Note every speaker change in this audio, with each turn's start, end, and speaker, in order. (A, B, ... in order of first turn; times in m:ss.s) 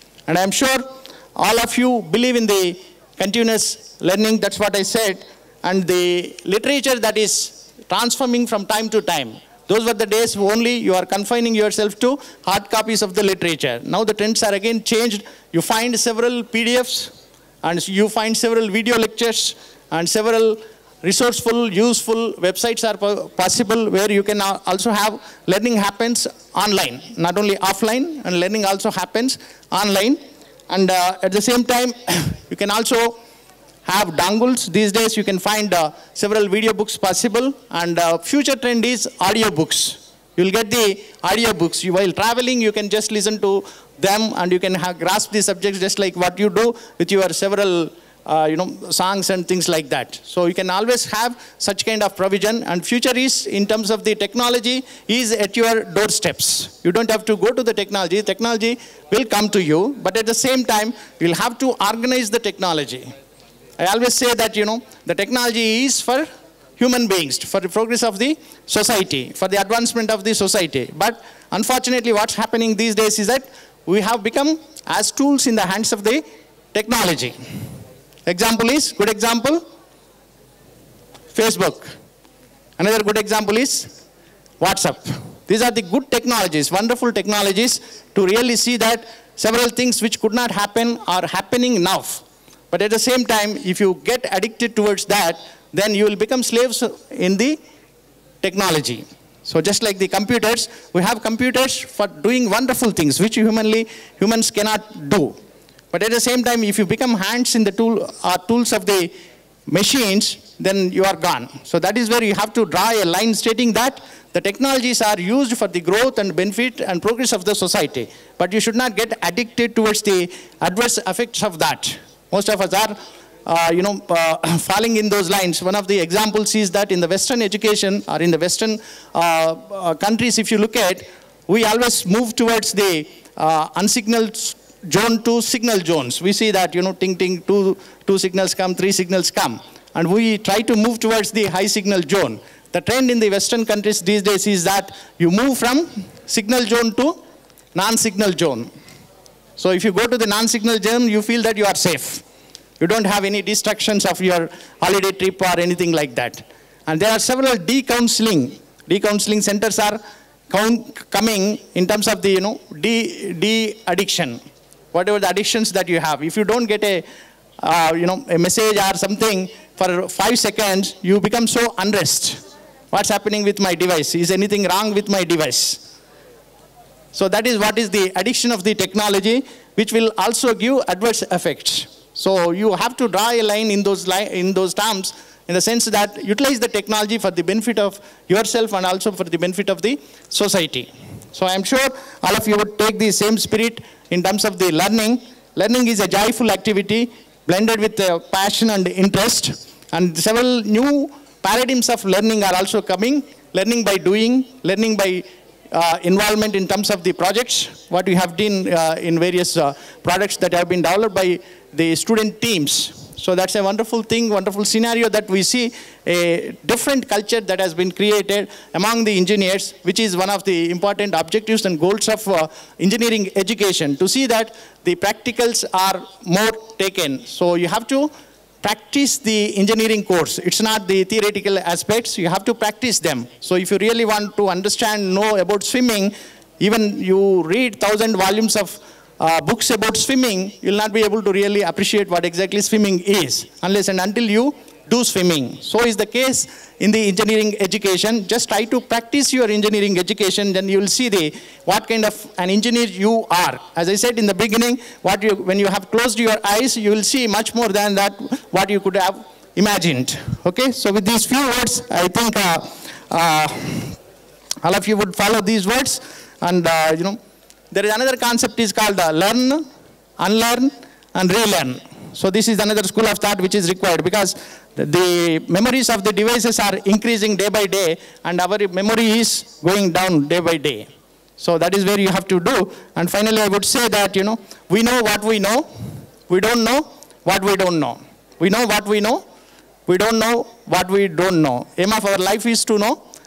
0:00.3-0:17.1 A
0:17.6-0:33.2 A
0:33.8-1:03.1 A
1:03.8-1:16.2 A
1:16.7-1:17.4 A
1:18.3-1:19.6 A
1:21.3-1:21.9 A
1:22.8-1:23.9 A
1:24.6-1:37.6 A
1:38.4-1:45.4 A
1:45.9-1:49.1 A
1:49.7-2:27.2 A
2:27.7-2:28.7 A
2:29.6-2:32.2 A
2:32.8-2:44.4 A
2:44.9-2:47.0 A
2:47.6-2:52.4 A
2:52.9-2:55.8 A
2:57.1-3:48.1 A
3:48.6-4:24.0 A
4:24.6-4:27.2 A
4:27.7-4:29.6 A
4:30.2-4:45.7 A
4:46.3-4:49.2 A
4:49.9-4:53.0 A